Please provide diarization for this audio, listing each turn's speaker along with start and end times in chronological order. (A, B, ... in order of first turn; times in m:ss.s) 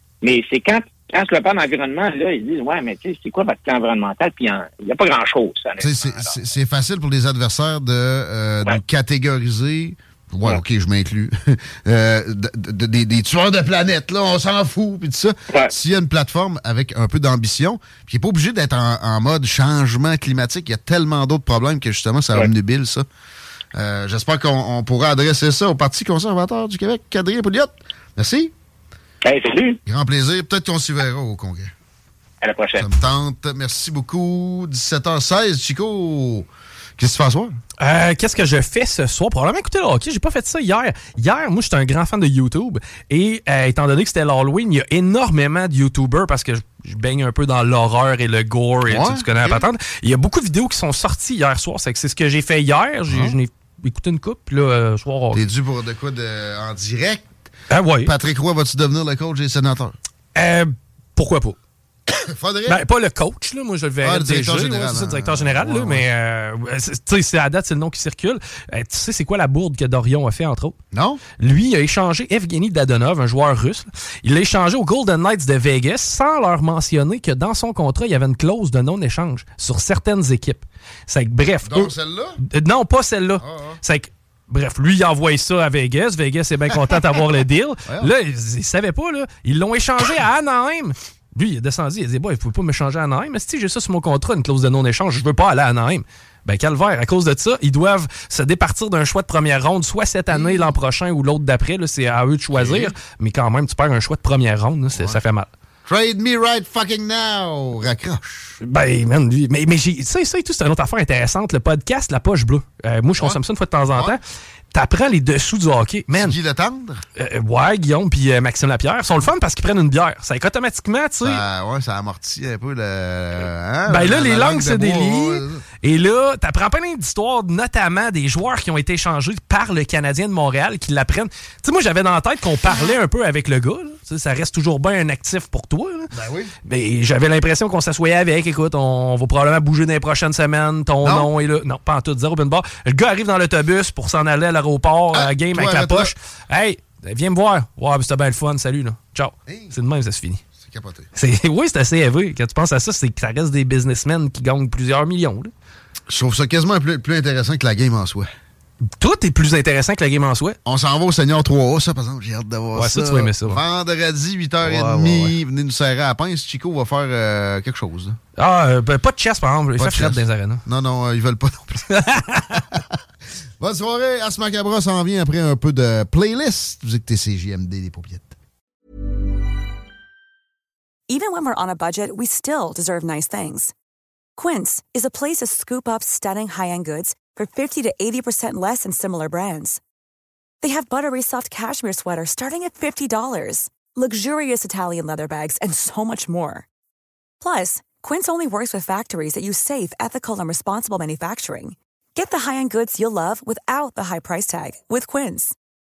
0:00.2-0:06.4 A
0:05.8-0:23.1 B
0:23.7-0:28.5 B
0:29.2-0:29.8 A
0:29.9-0:31.7 B
0:32.4-0:32.9 A
0:32.8-0:37.6 B
0:37.8-0:55.4 C
0:48.9-0:49.7 B
0:53.1-0:53.4 B
0:55.3-0:57.3 B
0:57.7-0:58.1 C
0:58.0-1:00.0 B
1:00.4-1:01.6 C
1:02.1-1:02.8 B
1:02.7-1:10.8 C
1:04.0-1:06.1 B
1:10.9-1:11.2 B
1:11.4-1:45.5 C
1:21.6-1:22.4 B
1:23.4-1:23.8 B
1:27.8-1:28.1 B
1:40.3-1:40.8 B
1:42.5-1:43.0 B
1:44.9-1:45.2 B
1:45.9-1:48.6 B
1:48.6-1:54.2 C
1:53.2-1:54.2 B
1:54.7-1:56.4 C
1:56.1-1:57.0 B
1:57.2-2:01.4 C
2:01.2-2:05.6 B
2:03.9-2:16.1 C
2:16.1-2:16.5 B
2:16.6-2:30.4 C
2:21.0-2:21.3 B
2:25.1-2:26.1 B
2:29.5-2:29.8 B
2:30.6-2:31.1 B
2:31.1-2:35.5 C
2:36.1-2:38.3 B
2:39.0-2:40.6 C
2:40.6-2:48.2 B
2:42.8-2:43.6 C
2:44.6-2:45.3 C
2:48.4-2:50.6 C
2:49.8-2:53.0 B
2:51.9-2:52.6 C
2:53.6-2:58.4 B
3:01.1-3:03.7 D
3:04.4-3:09.8 D
3:10.6-3:16.7 D
3:17.4-3:25.6 D